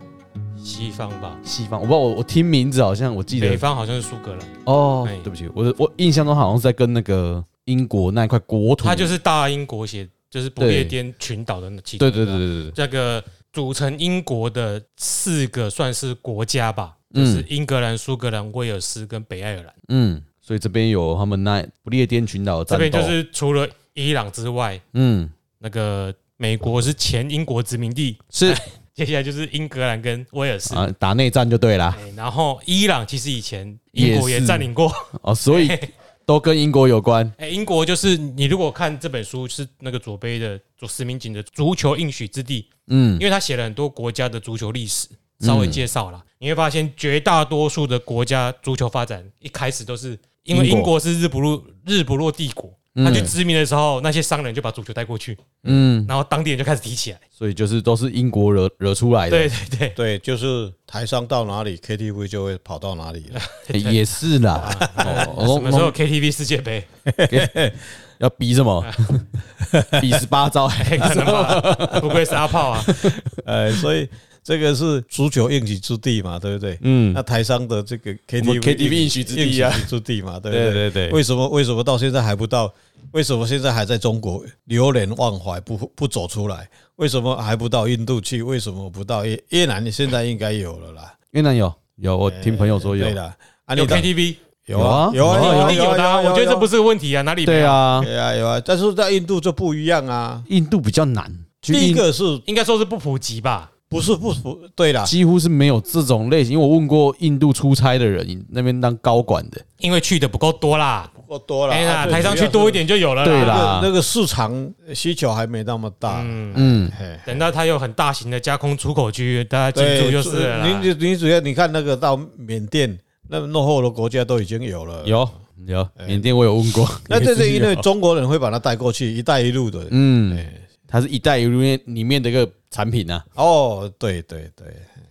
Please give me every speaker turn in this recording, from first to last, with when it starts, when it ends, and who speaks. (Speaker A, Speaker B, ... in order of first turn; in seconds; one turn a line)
Speaker A: 0.6-1.4
Speaker B: 1.4-3.6
Speaker A: 3.3-5.3
Speaker B: 4.7-9.2
Speaker A: 8.8-19.8
Speaker B: 10.6-10.9
Speaker B: 12.0-12.8
Speaker B: 17.1-17.5
Speaker B: 19.9-23.2
Speaker A: 22.7-24.8
Speaker B: 24.9-25.3
Speaker A: 25.6-30.8
Speaker B: 28.3-28.6
Speaker B: 30.7-32.0
Speaker A: 31.9-35.9
Speaker B: 34.0-37.4
Speaker A: 37.4-42.7
Speaker B: 42.9-43.2
Speaker A: 43.2-55.5
Speaker B: 45.4-45.8
Speaker B: 50.5-50.9
Speaker B: 53.0-53.3
Speaker B: 55.7-56.1
Speaker A: 56.1-57.2
Speaker B: 57.4-59.5
Speaker A: 59.3-60.0
Speaker C: 60.0-63.4
Speaker A: 63.3-66.9
Speaker B: 63.7-65.9
Speaker C: 65.0-65.5
Speaker C: 67.1-67.8
Speaker B: 67.3-67.6
Speaker B: 68.2-69.3
Speaker C: 69.6-70.2
Speaker B: 70.0-73.3
Speaker A: 70.8-73.0
Speaker C: 71.1-72.0
Speaker C: 73.3-91.2
Speaker B: 76.8-77.2
Speaker B: 78.4-79.9
Speaker B: 80.5-81.2
Speaker B: 91.3-93.2
Speaker C: 92.3-94.1
Speaker A: 93.8-94.4
Speaker C: 94.7-96.7
Speaker B: 94.7-95.8
Speaker A: 95.3-97.8
Speaker B: 97.5-98.1
Speaker C: 98.0-100.5
Speaker B: 100.5-102.0
Speaker C: 101.6-102.5
Speaker A: 102.5-103.7
Speaker C: 103.9-105.2
Speaker B: 105.0-109.6
Speaker A: 109.8-111.1
Speaker C: 111.1-117.5
Speaker A: 111.7-113.7
Speaker B: 113.2-113.9
Speaker A: 116.1-116.6
Speaker B: 116.5-117.0
Speaker A: 117.2-120.9
Speaker C: 119.8-125.2
Speaker B: 125.0-127.8
Speaker C: 126.0-126.2
Speaker C: 127.1-130.6
Speaker B: 129.9-133.2
Speaker C: 133.4-134.9